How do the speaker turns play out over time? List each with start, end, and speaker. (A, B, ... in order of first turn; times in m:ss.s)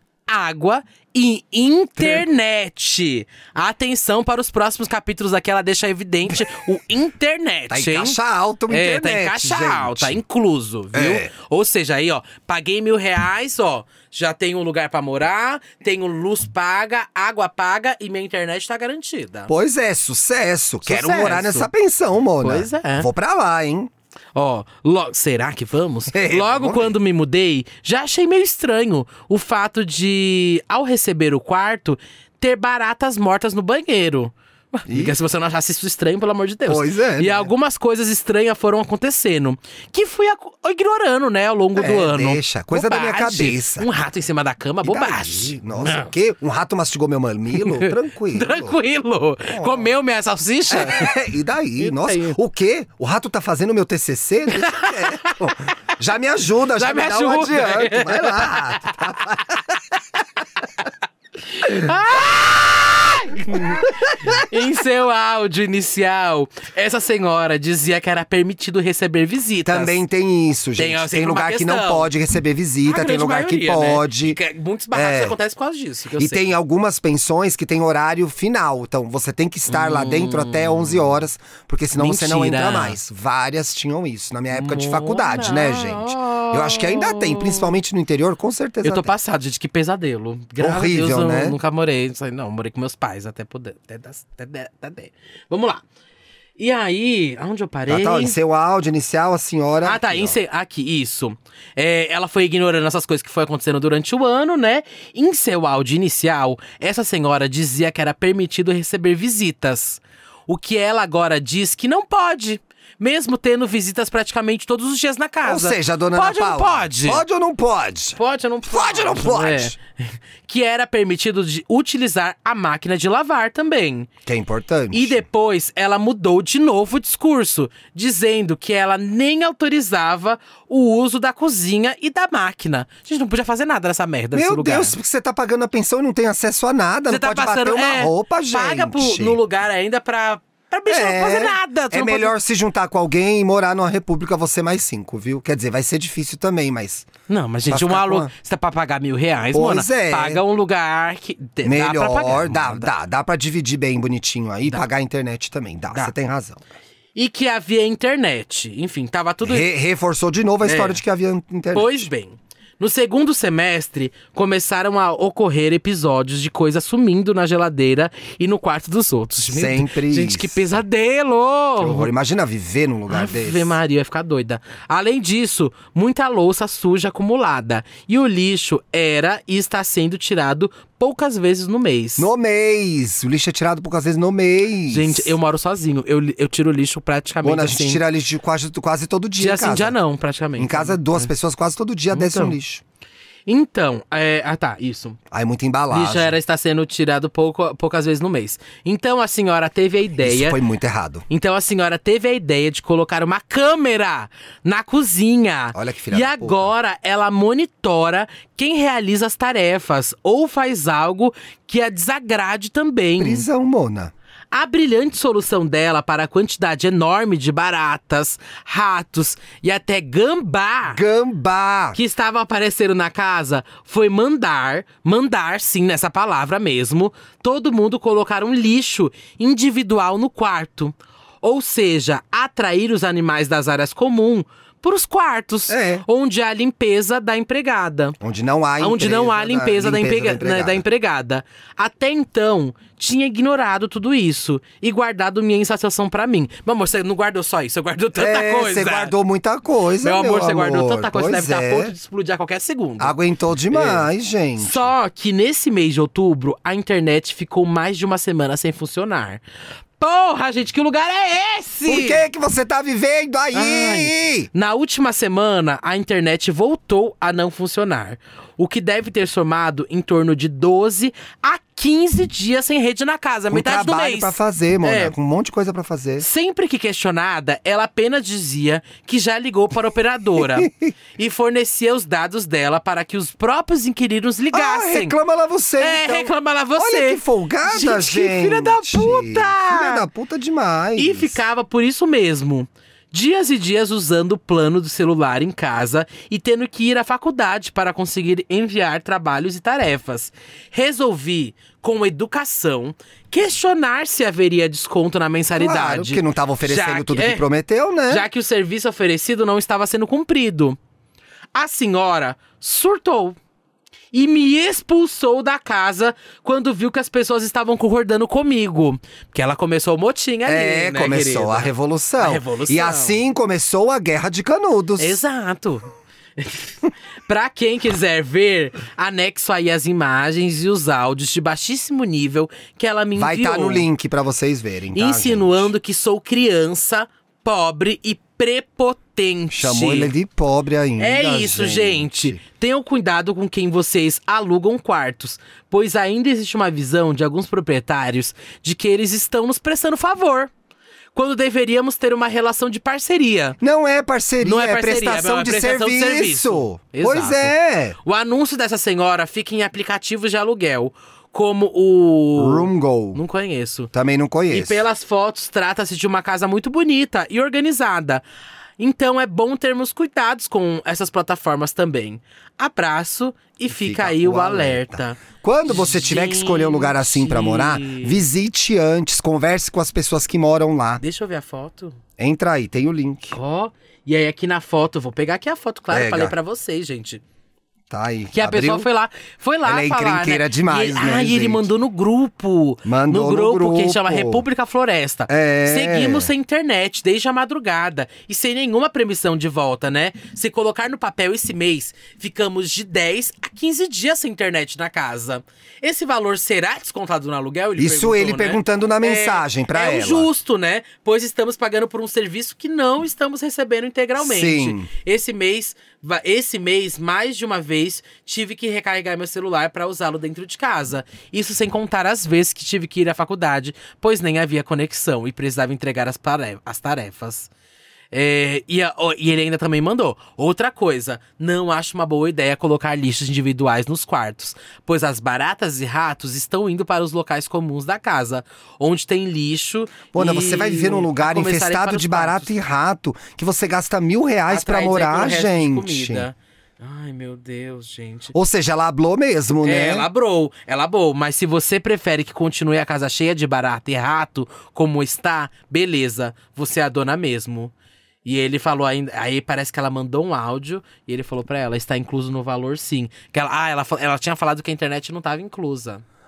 0:00.3-0:19.5 A
0:07.7-0:10.2 B
0:10.9-0:11.3 B
0:19.5-0:23.9 B
0:20.8-0:21.7 A
0:22.4-0:23.1 A
0:24.4-0:46.1 A
0:26.1-0:26.9 B
0:34.9-0:35.1 B
0:36.7-0:37.5 B
0:41.8-0:43.9 B
0:44.8-0:48.8 B
0:47.6-0:51.2 A
0:49.5-0:49.9 B
0:50.7-0:59.6 B
0:51.8-0:52.4 A
0:54.5-0:55.7 A
0:56.7-0:59.4 A
1:01.4-1:10.0 A
1:09.6-1:14.4 B
1:10.8-1:12.1 A
1:12.8-1:16.4 A
1:14.9-1:15.4 B
1:16.2-1:29.1 B
1:19.7-1:21.1 A
1:22.0-1:23.0 A
1:24.5-1:27.7 A
1:28.8-1:35.8 A
1:30.6-1:31.6 B
1:36.6-1:38.4 A
1:37.9-1:40.4 B
1:39.8-1:57.2 A
1:55.4-1:59.7 B
1:58.1-2:04.1 A
2:04.2-2:05.2 B
2:04.9-2:15.0 A
2:14.3-2:19.4 B
2:17.1-2:22.3 A
2:20.9-2:27.1 B
2:27.3-2:32.9 A
2:27.7-2:28.3 B
2:29.5-2:30.4 B
2:31.6-2:36.6 B
2:37.1-2:39.7 A
2:39.4-2:42.1 B
2:40.6-2:41.0 A
2:41.7-2:52.1 A
2:49.5-2:50.6 B
2:51.8-2:53.7 B
2:53.1-3:02.3 A
3:02.2-3:05.3 B
3:04.9-3:08.0 A
3:07.4-3:09.9 B
3:09.4-3:11.3 A
3:10.6-3:12.8 B
3:12.1-3:12.6 A
3:13.5-3:15.2 A
3:15.3-3:16.3 B
3:15.9-3:20.6 A
3:20.2-3:21.2 B
3:21.3-3:33.4 A
3:25.7-3:26.7 B
3:33.2-3:34.1 B
3:34.5-3:41.0 A
3:40.9-3:42.0 B
3:41.9-3:58.2 A
3:55.7-3:56.0 B
3:58.2-4:00.8 B
3:58.8-4:09.1 A
4:08.1-4:11.9 B
4:10.0-4:13.1 A
4:13.0-4:14.9 B
4:13.7-4:14.0 A
4:14.6-4:19.4 A
4:20.0-4:22.2 A
4:21.9-4:24.5 B
4:23.5-4:35.1 A
4:33.5-4:36.2 B
4:36.2-4:45.2 A
4:40.4-4:40.9 B
4:44.5-4:51.4 B
4:45.8-4:50.0 A
4:51.0-5:07.4 A
5:05.6-5:08.2 B
5:08.1-5:10.8 A
5:11.5-5:13.4 A
5:14.1-5:23.2 A
5:20.4-5:25.2 B
5:25.0-5:33.9 A
5:33.2-5:35.7 B
5:34.9-5:40.1 A
5:39.5-5:42.4 B
5:41.0-5:50.5 A
5:51.1-5:53.6 A
5:53.6-5:58.0 B
5:54.4-6:03.9 A
6:02.4-6:03.2 B
6:03.9-6:04.8 B
6:04.5-6:08.2 A
6:08.8-6:18.2 A
6:13.7-6:21.0 B
6:21.0-6:22.0 A
6:22.2-6:23.4 B
6:23.3-6:27.2 A
6:25.9-6:26.3 B
6:27.9-6:28.9 B
6:28.3-7:07.5 A
6:29.6-6:31.7 B
6:32.8-6:34.4 B
6:35.3-6:36.3 B
6:47.8-6:50.3 B
6:54.2-6:54.9 B
7:08.1-7:22.5 A
7:20.1-7:26.3 B
7:24.5-7:28.3 A
7:28.3-7:30.1 B
7:29.6-7:37.7 A
7:38.2-7:46.0 A